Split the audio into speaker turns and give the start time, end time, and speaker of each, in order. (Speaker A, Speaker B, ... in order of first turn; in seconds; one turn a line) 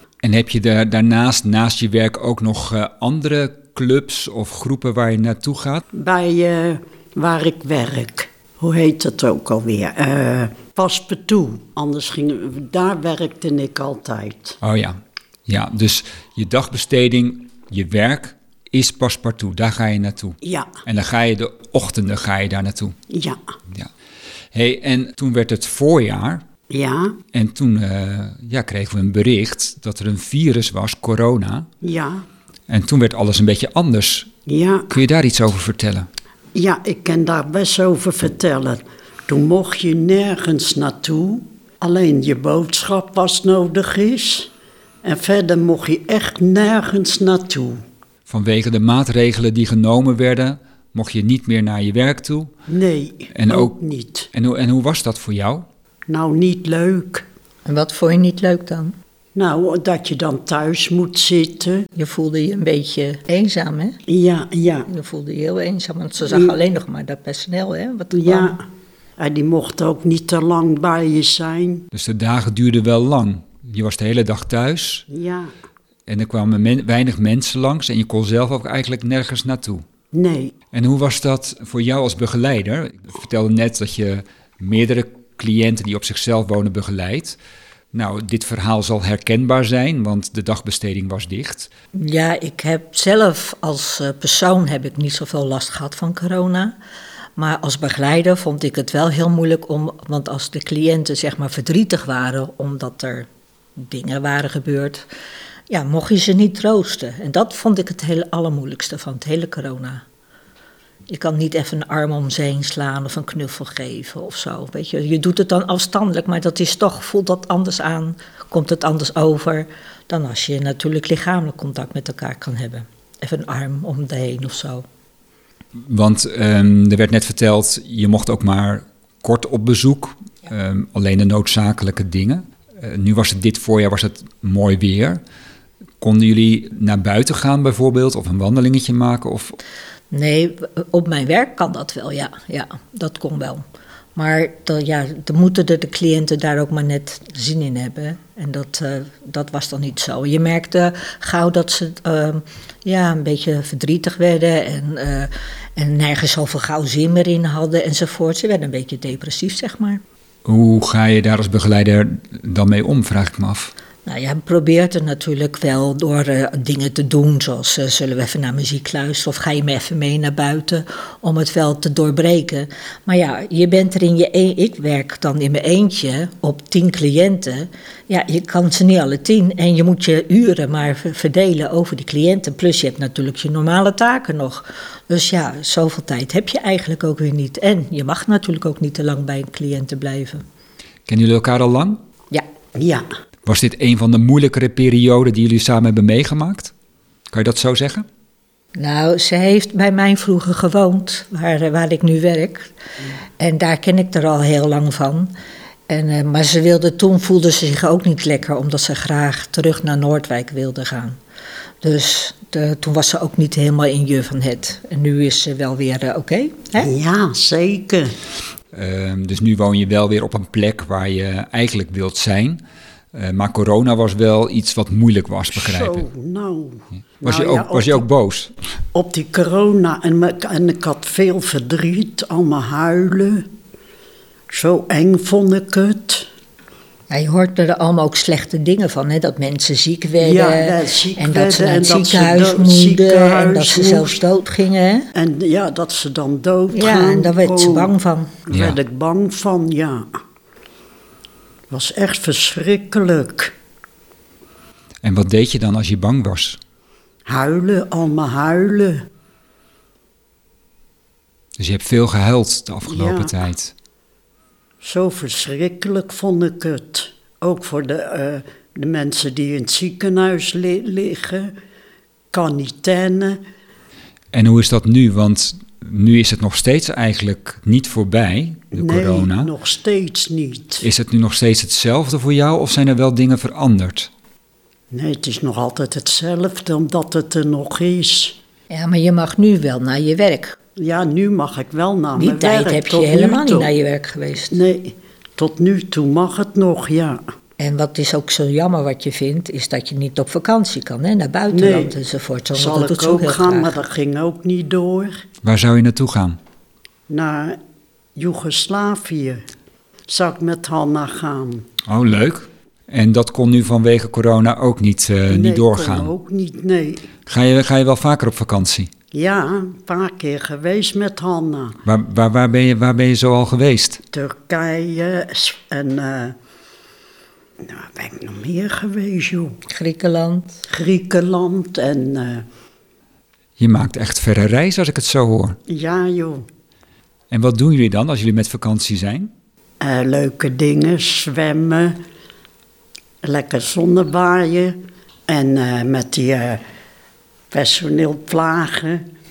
Speaker A: 0.2-5.8
Speaker B: 5.9-14.6
Speaker A: 14.6-22.9
Speaker B: 20.4-20.7
Speaker B: 23.1-23.4
Speaker A: 24.5-26.4
Speaker B: 26.7-27.2
Speaker A: 27.3-31.7
Speaker B: 31.8-32.2
Speaker A: 32.7-34.3
Speaker B: 34.5-34.9
Speaker A: 34.9-36.1
Speaker B: 36.5-44.5
Speaker B: 45.0-47.8
Speaker A: 48.3-52.5
Speaker B: 52.7-54.3
Speaker A: 53.3-53.8
Speaker A: 54.3-55.6
Speaker B: 56.1-57.2
Speaker C: 57.6-58.9
Speaker B: 59.3-61.9
Speaker C: 62.0-64.0
Speaker B: 64.1-64.9
Speaker C: 64.9-68.6
Speaker B: 68.1-68.6
Speaker B: 69.2-71.9
Speaker A: 71.9-75.1
Speaker B: 75.1-75.5
Speaker A: 76.1-79.8
Speaker B: 80.1-80.5
Speaker A: 80.7-87.4
Speaker A: 87.9-91.7
Speaker C: 91.9-96.7
Speaker C: 97.4-103.3
Speaker C: 103.8-105.1
Speaker C: 105.7-110.0
Speaker C: 111.1-124.8
Speaker A: 125.8-135.2
Speaker A: 136.0-139.6
Speaker C: 140.1-143.6
Speaker C: 144.2-160.0
Speaker A: 160.4-163.7
Speaker C: 164.1-190.4
Speaker A: 191.1-192.0
Speaker B: 192.7-193.1
Speaker A: 193.4-196.7
Speaker A: 197.3-198.1
Speaker C: 198.8-202.7
Speaker C: 203.4-205.3
Speaker C: 205.9-211.2
Speaker C: 211.8-216.9
Speaker B: 216.8-218.2
Speaker A: 218.7-222.6
Speaker A: 223.1-226.1
Speaker B: 225.5-228.1
Speaker A: 227.2-228.5
Speaker B: 228.9-233.5
Speaker B: 234.5-236.3
Speaker C: 237.1-245.1
Speaker B: 240.2-244.2
Speaker B: 245.1-247.9
Speaker C: 246.7-248.3
Speaker B: 248.5-250.1
Speaker A: 248.5-248.8
Speaker B: 251.7-253.5
Speaker A: 255.0-256.6
Speaker B: 257.3-259.1
Speaker A: 261.6-263.7
Speaker B: 262.9-263.3
Speaker B: 264.8-271.5
Speaker B: 272.3-273.4
Speaker A: 274.3-279.5
Speaker B: 278.7-280.9
Speaker A: 280.8-284.1
Speaker B: 284.9-288.4
Speaker C: 288.7-290.6
Speaker B: 290.8-293.7
Speaker C: 292.2-294.6
Speaker B: 294.5-297.2
Speaker C: 297.6-303.7
Speaker B: 301.5-301.9
Speaker B: 302.5-305.2
Speaker A: 305.4-306.4
Speaker B: 307.1-307.6
Speaker B: 308.1-309.4
Speaker B: 310.1-311.6
Speaker A: 311.9-316.1
Speaker B: 315.3-317.1
Speaker A: 317.3-318.9
Speaker B: 319.1-321.8
Speaker A: 321.8-324.0
Speaker B: 324.1-326.3
Speaker B: 327.6-329.6
Speaker C: 329.7-330.6
Speaker B: 330.7-332.4
Speaker A: 333.6-335.6
Speaker B: 335.7-336.4
Speaker A: 337.3-339.3
Speaker B: 339.8-342.0
Speaker B: 343.2-346.6
Speaker B: 347.5-349.0